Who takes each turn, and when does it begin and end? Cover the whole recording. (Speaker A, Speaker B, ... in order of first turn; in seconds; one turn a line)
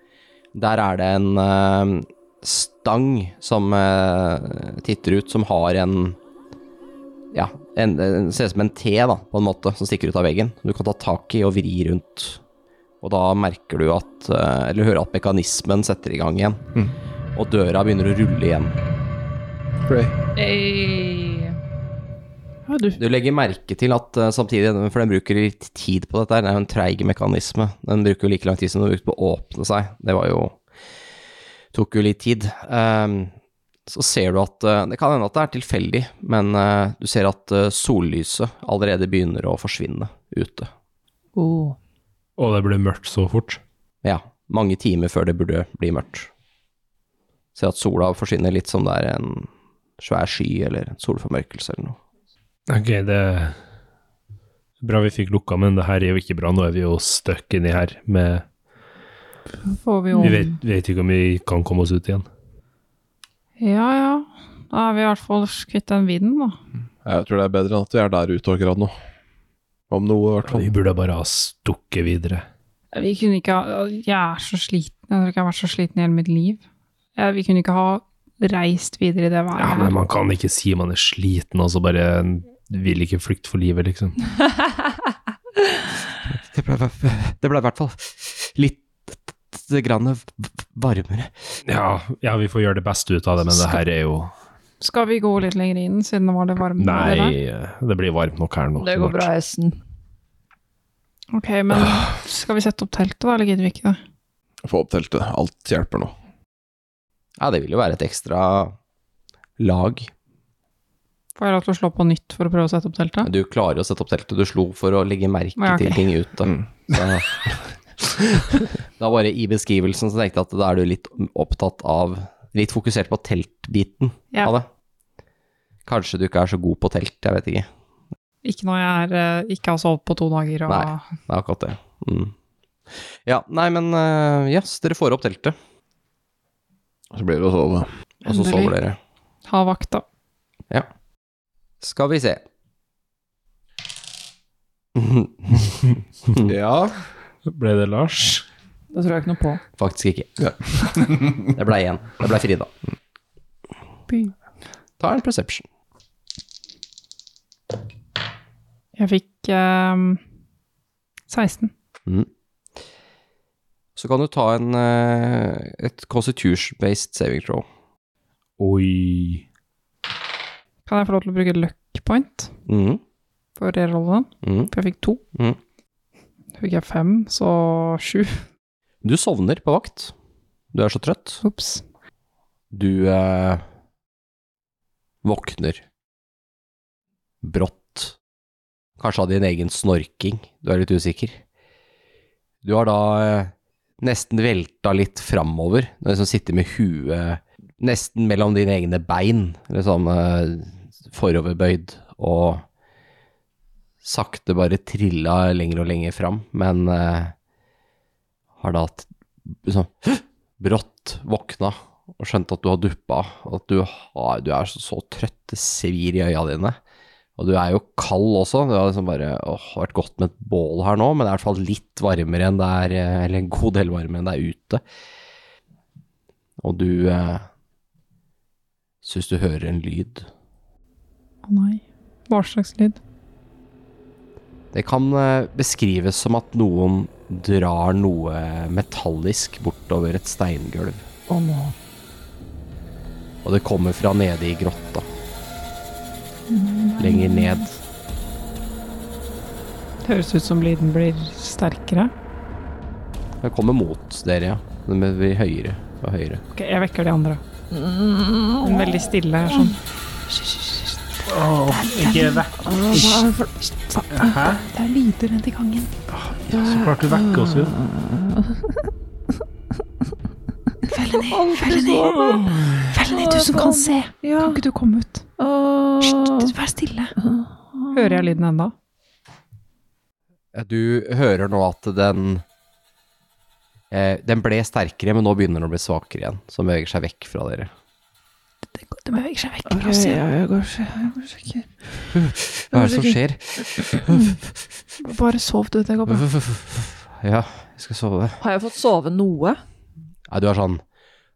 Speaker A: 0.5-6.2
Speaker A: 7.3-12.4
Speaker A: 13.0-16.6
Speaker A: 17.3-18.7
Speaker B: 19.8-20.1
Speaker C: 20.4-21.6
Speaker D: 22.7-23.0
Speaker A: 23.0-30.6
Speaker A: 31.7-33.3
Speaker A: 33.9-40.7
Speaker C: 41.3-41.8
Speaker E: 42.4-43.6
Speaker A: 44.0-46.3
Speaker A: 47.5-52.0
Speaker E: 52.7-53.5
Speaker E: 54.8-58.4
Speaker D: 59.7-60.4
Speaker C: 60.1-60.5
Speaker E: 60.2-62.2
Speaker D: 63.6-66.6
Speaker B: 67.0-68.9
Speaker B: 69.9-70.7
Speaker E: 70.5-72.5
Speaker D: 72.9-76.6
Speaker D: 77.2-79.9
Speaker E: 79.6-84.2
Speaker A: 86.3-91.5
Speaker E: 91.7-94.3
Speaker D: 94.8-97.3
Speaker E: 96.8-99.3
Speaker C: 98.8-99.8
Speaker D: 101.3-104.0
Speaker B: 104.6-106.1
Speaker A: 107.4-108.8
Speaker A: 109.6-110.1
Speaker D: 111.4-113.3
Speaker A: 113.2-117.3
Speaker D: 115.6-116.0
Speaker A: 119.0-124.7
Speaker A: 125.8-127.7
Speaker D: 128.4-131.1
Speaker A: 130.7-132.3
Speaker A: 133.2-135.6
Speaker B: 137.1-137.9
Speaker D: 138.2-138.8
Speaker A: 138.2-139.0
Speaker D: 139.4-140.0
Speaker A: 141.8-142.4
Speaker A: 144.9-146.5
Speaker B: 146.4-147.0
Speaker E: 147.4-148.4
Speaker C: 148.9-149.6
Speaker A: 149.8-150.3
Speaker B: 150.4-151.3
Speaker A: 151.4-152.7
Speaker D: 154.1-154.3
Speaker A: 155.0-155.6
Speaker D: 159.0-160.2
Speaker D: 161.3-161.7
Speaker A: 163.9-167.7
Speaker E: 168.6-169.4
Speaker D: 170.9-172.5
Speaker A: 172.7-173.0
Speaker D: 173.6-175.2
Speaker A: 174.4-174.7
Speaker A: 175.3-175.6
Speaker D: 176.6-178.4
Speaker A: 179.0-180.1
Speaker A: 180.7-181.4
Speaker D: 181.4-181.8
Speaker A: 182.7-183.6
Speaker A: 185.2-185.8
Speaker A: 187.4-188.2
Speaker A: 189.0-191.4
Speaker A: 192.6-202.6
Speaker A: 204.0-207.3
Speaker A: 208.6-216.8
Speaker A: 217.4-224.8
Speaker A: 226.6-227.5
Speaker A: 229.0-230.3
Speaker D: 231.4-233.0
Speaker A: 234.7-241.0
Speaker C: 241.3-241.7
Speaker A: 243.4-245.1
Speaker D: 246.5-247.7
Speaker A: 247.0-247.8
Speaker D: 250.0-252.1
Speaker A: 253.4-256.4
Speaker D: 256.5-257.4
Speaker C: 257.7-259.7
Speaker D: 258.6-259.8
Speaker C: 260.4-260.7
Speaker E: 261.2-263.3
Speaker D: 261.7-262.4
Speaker C: 262.6-264.3
Speaker E: 264.1-264.6
Speaker D: 264.6-266.0
Speaker E: 266.2-267.7
Speaker C: 266.5-268.9
Speaker D: 270.9-275.3
Speaker C: 271.2-274.6
Speaker C: 275.4-276.5
Speaker D: 276.0-277.1
Speaker C: 277.2-278.4
Speaker D: 277.9-278.7
Speaker A: 280.5-282.4
Speaker A: 283.9-287.7
Speaker D: 288.7-290.2
Speaker C: 289.6-291.7
Speaker A: 292.1-294.6
Speaker C: 292.7-293.2
Speaker D: 295.0-296.2
Speaker A: 296.1-298.4
Speaker C: 298.4-299.6
Speaker A: 300.3-300.8